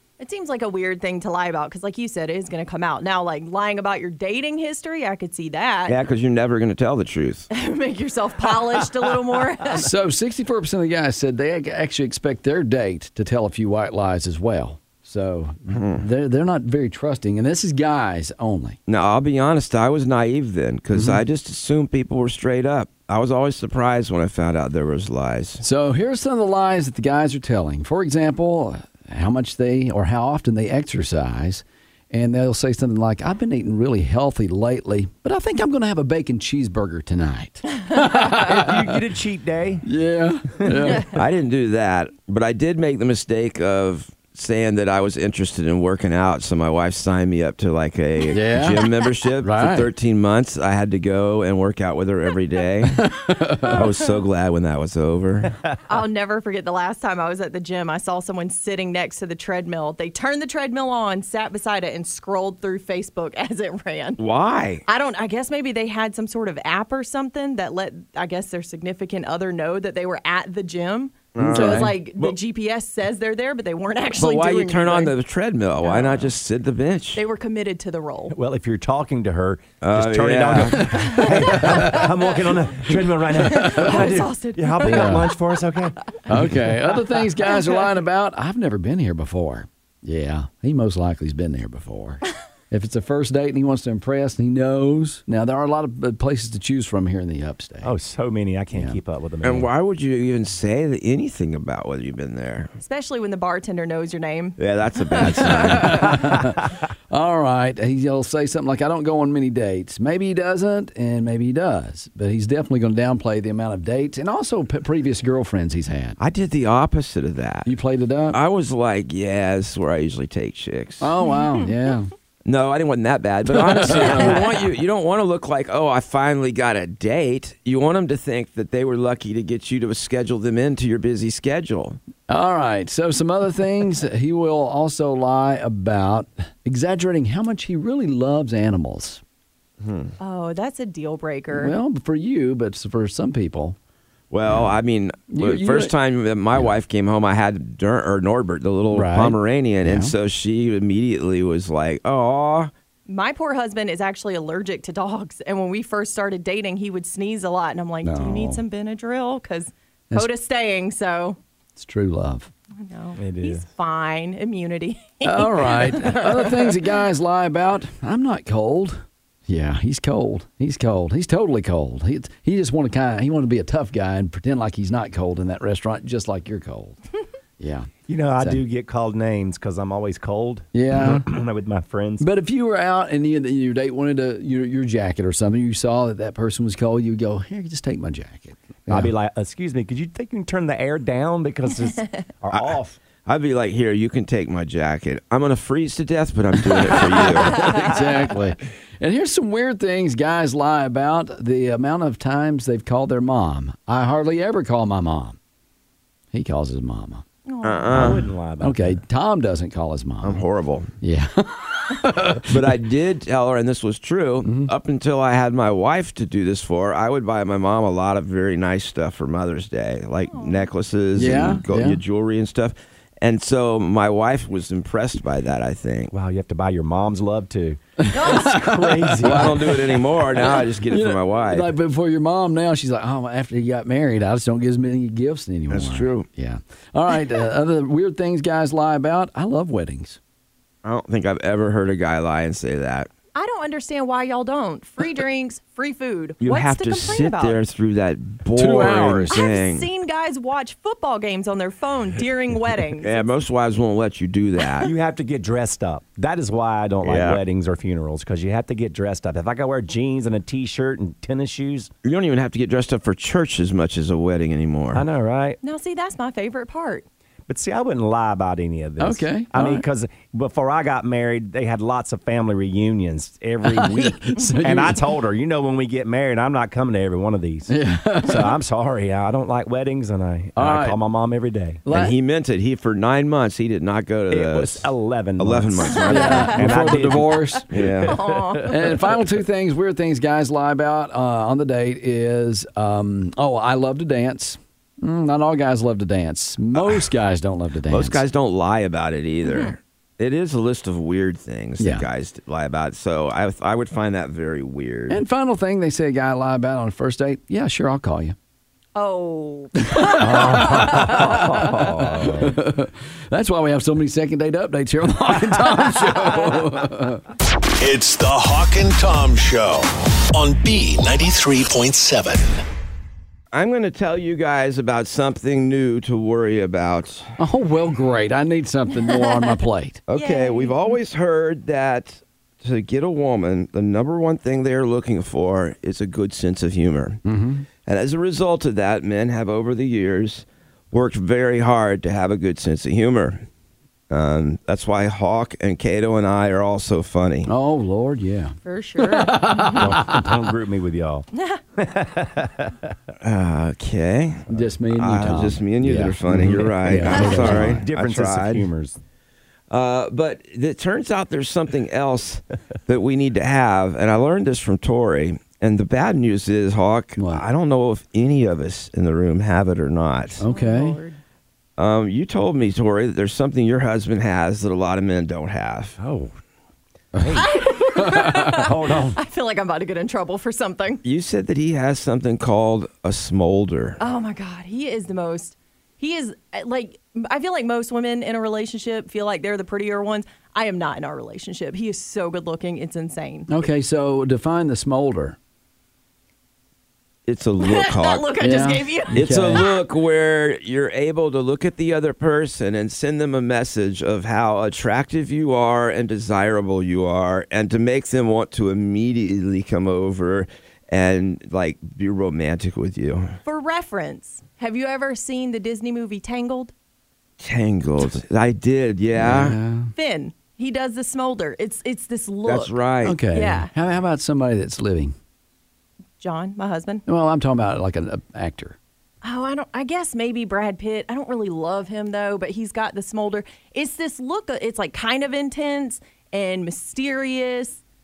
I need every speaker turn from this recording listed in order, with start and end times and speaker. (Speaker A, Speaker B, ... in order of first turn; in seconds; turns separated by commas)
Speaker A: 0.2-6.0, Speaker B: 5.9-7.5, Speaker A: 7.5-9.9, Speaker C: 9.6-18.8, Speaker B: 15.7-16.0, Speaker B: 18.9-25.6, Speaker C: 20.9-21.2, Speaker C: 25.6-39.0, Speaker D: 38.2-39.9, Speaker C: 39.8-41.1, Speaker D: 40.6-41.0, Speaker B: 41.0-55.6, Speaker C: 48.3-48.9, Speaker C: 49.4-49.9, Speaker C: 52.9-53.9, Speaker A: 55.9-64.2, Speaker B: 64.2-64.8, Speaker A: 64.9-75.1, Speaker B: 71.3-72.4, Speaker C: 71.4-72.0, Speaker B: 74.2-77.2, Speaker A: 75.8-76.2, Speaker A: 77.1-78.3, Speaker D: 78.3-86.6, Speaker B: 79.8-81.6, Speaker A: 80.8-82.3, Speaker C: 81.5-81.9, Speaker A: 83.4-85.3, Speaker C: 83.4-83.8, Speaker C: 84.8-85.3, Speaker C: 86.3-97.9, Speaker D: 97.8-99.7, Speaker C: 98.7-99.0, Speaker B: 99.4-102.7, Speaker A: 102.8-106.2, Speaker B: 104.6-106.3, Speaker C: 105.3-116.2, Speaker B: 116.2-117.7, Speaker C: 117.6-118.4, Speaker B: 118.3-121.1, Speaker C: 121.0-122.1, Speaker B: 122.4-132.0, Speaker C: 123.5-124.5, Speaker C: 132.3-139.2, Speaker B: 139.8-140.1, Speaker A: 140.2-141.7, Speaker C: 141.5-143.8, Speaker B: 144.3-152.7, Speaker C: 145.3-145.9, Speaker C: 148.9-150.1, Speaker A: 153.1-161.4, Speaker C: 158.0-158.6, Speaker C: 161.8-162.5, Speaker A: 162.8-166.7, Speaker D: 163.2-163.7, Speaker C: 165.2-177.0, Speaker C: 177.6-178.6, Speaker D: 178.1-182.2, Speaker C: 180.7-181.3, Speaker C: 182.2-189.1, Speaker D: 188.9-193.0, Speaker B: 192.5-197.8, Speaker C: 196.9-205.4, Speaker C: 206.3-207.2, Speaker A: 207.4-208.1, Speaker B: 207.6-208.2, Speaker D: 207.9-208.8, Speaker C: 208.0-210.4, Speaker B: 210.2-210.9, Speaker C: 211.0-212.7, Speaker B: 212.5-226.1, Speaker C: 214.4-214.7, Speaker A: 220.3-220.7, Speaker C: 221.1-222.0, Speaker D: 226.1-229.7, Speaker C: 228.0-229.7, Speaker B: 229.2-231.7, Speaker C: 230.3-240.2, Speaker B: 235.7-236.2, Speaker B: 240.8-243.1, Speaker A: 243.3-247.6, Speaker B: 246.4-249.9, Speaker C: 248.5-249.4, Speaker A: 249.3-253.2, Speaker B: 253.0-254.9, Speaker D: 254.8-261.9, Speaker B: 257.0-257.4, Speaker B: 262.0-265.1, Speaker D: 264.9-265.6, Speaker A: 265.6-267.0, Speaker D: 267.5-281.8, Speaker C: 269.0-269.9, Speaker C: 273.6-275.0, Speaker C: 277.7-278.6, Speaker C: 280.6-281.0, Speaker C: 281.8-282.1, Speaker B: 281.9-286.7, Speaker D: 284.3-289.0, Speaker A: 285.9-286.6, Speaker C: 286.0-287.9, Speaker B: 287.7-288.4, Speaker A: 288.0-288.9, Speaker C: 288.6-298.2, Speaker B: 297.9-305.2, Speaker A: 299.4-299.7, Speaker C: 301.8-302.0, Speaker C: 305.1-308.3, Speaker A: 308.9-311.7, Speaker C: 309.8-317.2, Speaker D: 310.1-312.6, Speaker E: 317.8-322.6, Speaker B: 323.5-327.3, Speaker C: 327.4-330.0, Speaker B: 330.1-337.2, Speaker A: 330.1-330.9, Speaker C: 337.2-337.6, Speaker B: 337.9-343.4, Speaker B: 344.1-347.5, Speaker C: 347.4-350.4, Speaker A: 348.6-349.8, Speaker D: 349.7-352.9, Speaker A: 351.3-351.6, Speaker B: 353.2-358.7, Speaker C: 354.5-357.9, Speaker D: 356.3-359.0, Speaker B: 359.7-370.4, Speaker C: 367.2-367.4, Speaker C: 370.4-371.0, Speaker A: 370.4-371.2, Speaker B: 371.8-376.0, Speaker D: 376.0-376.3, Speaker C: 377.1-378.4, Speaker D: 377.1-377.5, Speaker A: 377.3-381.0, Speaker D: 378.3-379.2, Speaker B: 381.0-384.0, Speaker A: 384.0-393.5, Speaker C: 393.5-395.4, Speaker B: 397.3-398.4, Speaker A: 397.6-399.2, Speaker C: 398.4-399.7, Speaker B: 399.1-413.4, Speaker A: 413.4-416.7, Speaker B: 417.4-419.6, Speaker C: 419.1-419.9, Speaker A: 419.9-422.8, Speaker B: 422.4-423.2, Speaker C: 423.0-425.1, Speaker A: 423.3-423.7, Speaker A: 426.2-427.0, Speaker C: 427.1-428.8, Speaker A: 429.2-437.8